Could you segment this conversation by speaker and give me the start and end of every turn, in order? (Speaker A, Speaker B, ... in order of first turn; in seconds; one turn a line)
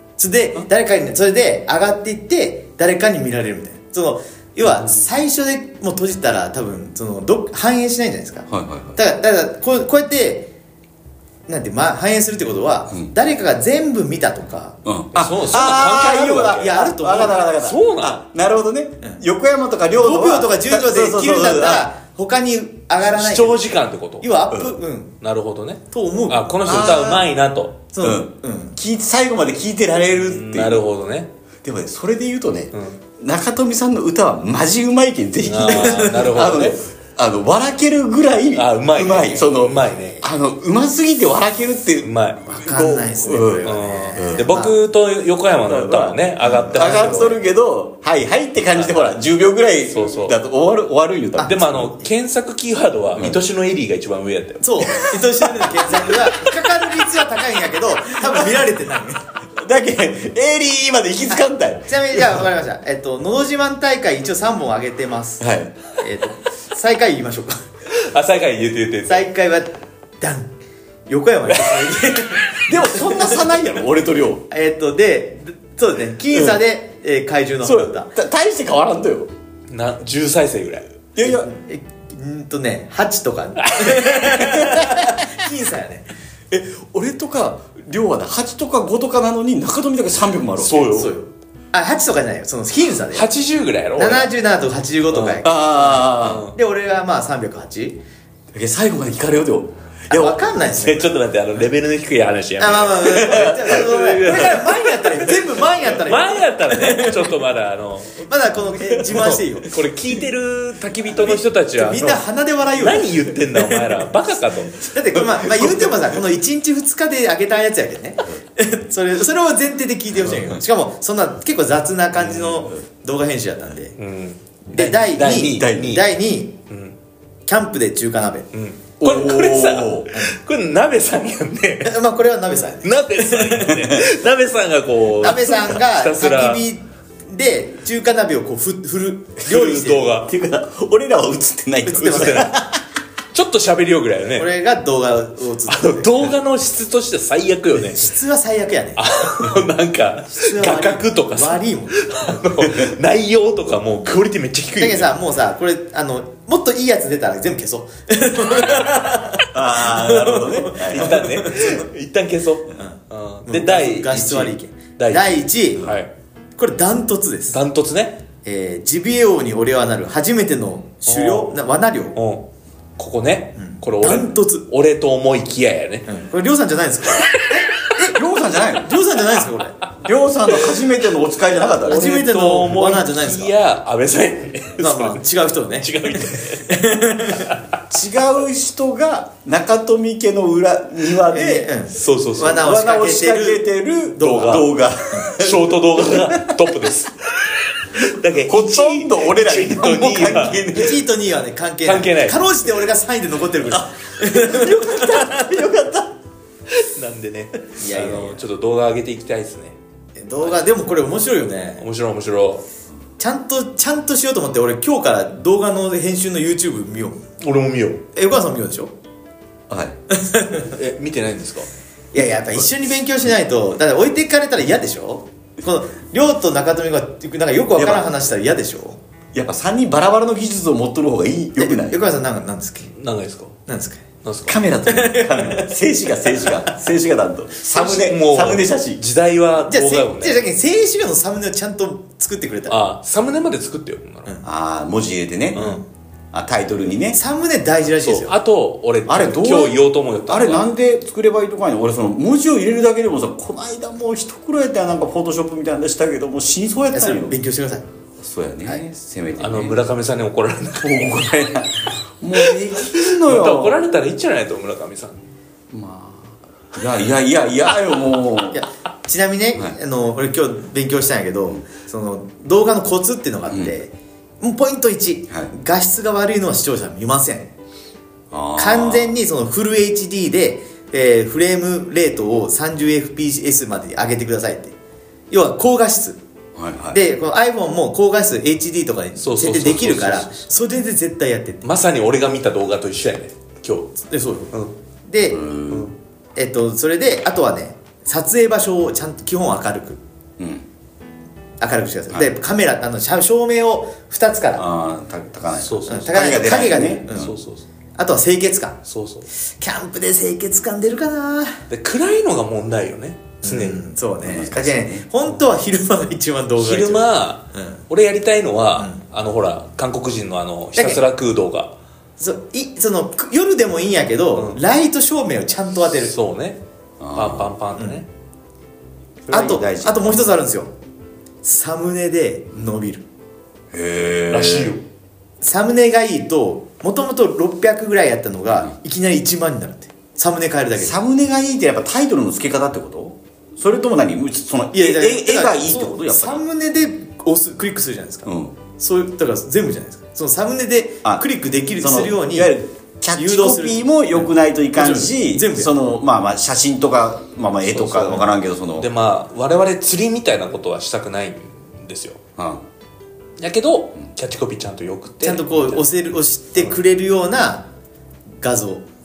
Speaker A: 0.2-10.5
Speaker B: 8.5-9.0
Speaker A: 11.5-14.8
Speaker B: 14.8-21.9
Speaker C: 15.1-16.8
Speaker A: 16.5-17.4
Speaker C: 17.4-18.2
Speaker A: 19.9-23.6
Speaker C: 23.0-24.3
Speaker A: 24.2-25.2
Speaker B: 24.5-24.8
Speaker C: 25.2-27.8
Speaker A: 25.9-27.2
Speaker B: 26.6-27.2
Speaker A: 27.9-28.8
Speaker B: 28.0-30.8
Speaker C: 30.1-31.3
Speaker B: 31.6-44.5
Speaker C: 32.7-33.0
Speaker C: 35.4-36.8
Speaker A: 35.7-36.2
Speaker C: 38.5-40.2
Speaker C: 42.0-42.4
Speaker A: 42.5-44.8
Speaker C: 43.6-47.4
Speaker B: 45.5-51.9
Speaker A: 46.4-47.3
Speaker C: 48.8-49.1
Speaker C: 49.9-50.4
Speaker A: 51.4-51.6
Speaker C: 51.4-54.9
Speaker A: 54.6-59.3
Speaker B: 55.8-56.2
Speaker B: 59.5-62.4
Speaker A: 61.4-67.6
Speaker B: 65.4-65.7
Speaker C: 67.9-69.2
Speaker A: 69.1-70.5
Speaker A: 71.1-73.5
Speaker B: 72.6-74.5
Speaker A: 74.5-78.1
Speaker B: 76.3-76.6
Speaker B: 77.6-79.3
Speaker C: 79.7-80.9
Speaker B: 81.1-81.5
Speaker A: 81.2-86.1
Speaker C: 83.6-84.5
Speaker B: 84.5-85.0
Speaker B: 86.5-90.9
Speaker C: 90.6-91.1
Speaker A: 90.7-93.3
Speaker C: 93.1-94.3
Speaker A: 94.0-98.0
Speaker C: 95.1-95.4
Speaker B: 95.3-96.5
Speaker C: 96.1-96.5
Speaker B: 98.5-100.4
Speaker A: 100.1-101.1
Speaker C: 100.7-112.2
Speaker A: 102.6-107.3
Speaker B: 103.1-104.3
Speaker A: 108.2-109.7
Speaker A: 111.1-114.1
Speaker C: 112.8-114.9
Speaker A: 114.8-124.0
Speaker B: 115.2-116.2
Speaker B: 120.2-120.6
Speaker B: 122.3-122.8
Speaker C: 124.0-126.0
Speaker A: 124.7-126.6
Speaker B: 125.4-126.0
Speaker C: 126.7-127.0
Speaker A: 127.5-128.5
Speaker C: 128.5-131.9
Speaker B: 129.0-130.1
Speaker A: 131.8-133.9
Speaker C: 132.8-136.6
Speaker A: 135.2-140.2
Speaker C: 139.4-140.3
Speaker B: 140.2-142.8
Speaker A: 141.9-142.5
Speaker C: 141.9-142.6
Speaker C: 143.3-144.5
Speaker A: 144.3-146.3
Speaker C: 145.7-148.1
Speaker A: 147.8-149.0
Speaker C: 149.0-155.1
Speaker A: 150.3-152.4
Speaker A: 154.8-161.8
Speaker B: 159.5-161.3
Speaker C: 160.8-166.1
Speaker A: 162.8-165.9
Speaker A: 166.6-167.6
Speaker C: 167.5-168.2
Speaker A: 168.4-172.2
Speaker C: 171.0-171.6
Speaker C: 172.1-172.4
Speaker C: 173.0-176.1
Speaker A: 173.6-174.7
Speaker A: 176.1-178.2
Speaker B: 178.0-178.9
Speaker A: 178.8-179.8
Speaker B: 180.0-182.2
Speaker A: 181.7-183.5
Speaker C: 181.9-185.2
Speaker A: 184.8-187.5
Speaker C: 185.8-186.7
Speaker B: 187.9-191.7
Speaker A: 191.3-195.3
Speaker C: 191.9-192.7
Speaker B: 192.4-196.6
Speaker C: 194.2-194.7
Speaker C: 195.3-200.7
Speaker B: 198.5-201.0
Speaker A: 200.7-205.6
Speaker C: 201.8-202.4
Speaker B: 203.7-206.1
Speaker C: 206.7-209.8
Speaker A: 207.8-208.5
Speaker A: 210.2-211.8
Speaker C: 210.4-210.7
Speaker C: 211.8-212.6
Speaker A: 213.2-217.2
Speaker C: 217.4-218.0
Speaker A: 218.1-218.9
Speaker B: 219.7-220.0
Speaker A: 220.1-220.7
Speaker C: 220.7-221.7
Speaker A: 222.1-229.0
Speaker B: 227.8-228.1
Speaker B: 229.3-232.0
Speaker A: 231.6-232.9
Speaker C: 232.9-233.6
Speaker A: 233.7-234.0
Speaker C: 234.2-234.6
Speaker B: 234.5-239.0
Speaker A: 234.8-235.8
Speaker A: 236.3-236.8
Speaker C: 237.7-240.4
Speaker A: 239.7-242.8
Speaker C: 242.7-244.3
Speaker B: 244.4-245.7
Speaker C: 245.5-245.8
Speaker A: 245.6-245.8
Speaker B: 246.3-247.2
Speaker A: 247.1-248.3
Speaker C: 248.0-250.7
Speaker B: 249.1-257.4
Speaker A: 256.9-257.9
Speaker B: 258.2-259.8
Speaker C: 259.4-261.3
Speaker B: 260.8-263.8
Speaker C: 262.4-265.2
Speaker B: 265.7-268.6
Speaker A: 268.5-277.5
Speaker B: 273.5-273.7
Speaker B: 278.3-279.1
Speaker A: 278.6-284.7
Speaker A: 285.3-286.2
Speaker B: 286.6-287.0
Speaker A: 286.9-291.6
Speaker C: 289.2-290.5
Speaker C: 291.6-293.9
Speaker A: 294.0-294.5
Speaker A: 295.1-295.5
Speaker B: 295.3-295.9
Speaker C: 295.7-295.9
Speaker A: 296.4-300.0
Speaker B: 300.4-300.6
Speaker A: 301.6-304.6
Speaker B: 304.6-307.3
Speaker C: 305.6-306.4
Speaker A: 305.9-307.3
Speaker C: 307.1-307.6
Speaker A: 307.9-308.8
Speaker C: 308.9-309.3
Speaker A: 309.6-311.6
Speaker C: 311.7-313.8
Speaker A: 313.4-317.8
Speaker B: 314.2-315.1
Speaker C: 316.6-321.8
Speaker A: 320.8-321.0
Speaker A: 322.2-326.1
Speaker C: 326.1-326.6
Speaker B: 327.0-327.5
Speaker C: 327.1-328.1
Speaker A: 327.8-328.0
Speaker B: 329.3-330.4
Speaker A: 329.3-330.7
Speaker A: 331.4-333.0
Speaker B: 333.7-334.8
Speaker C: 334.3-334.8
Speaker A: 335.4-340.9
Speaker B: 340.8-346.4
Speaker A: 344.7-352.6
Speaker B: 348.2-348.6
Speaker B: 351.8-358.9
Speaker A: 353.1-355.7
Speaker C: 357.7-362.2
Speaker B: 362.4-362.6
Speaker C: 363.4-365.9
Speaker A: 365.2-367.7
Speaker A: 368.4-368.8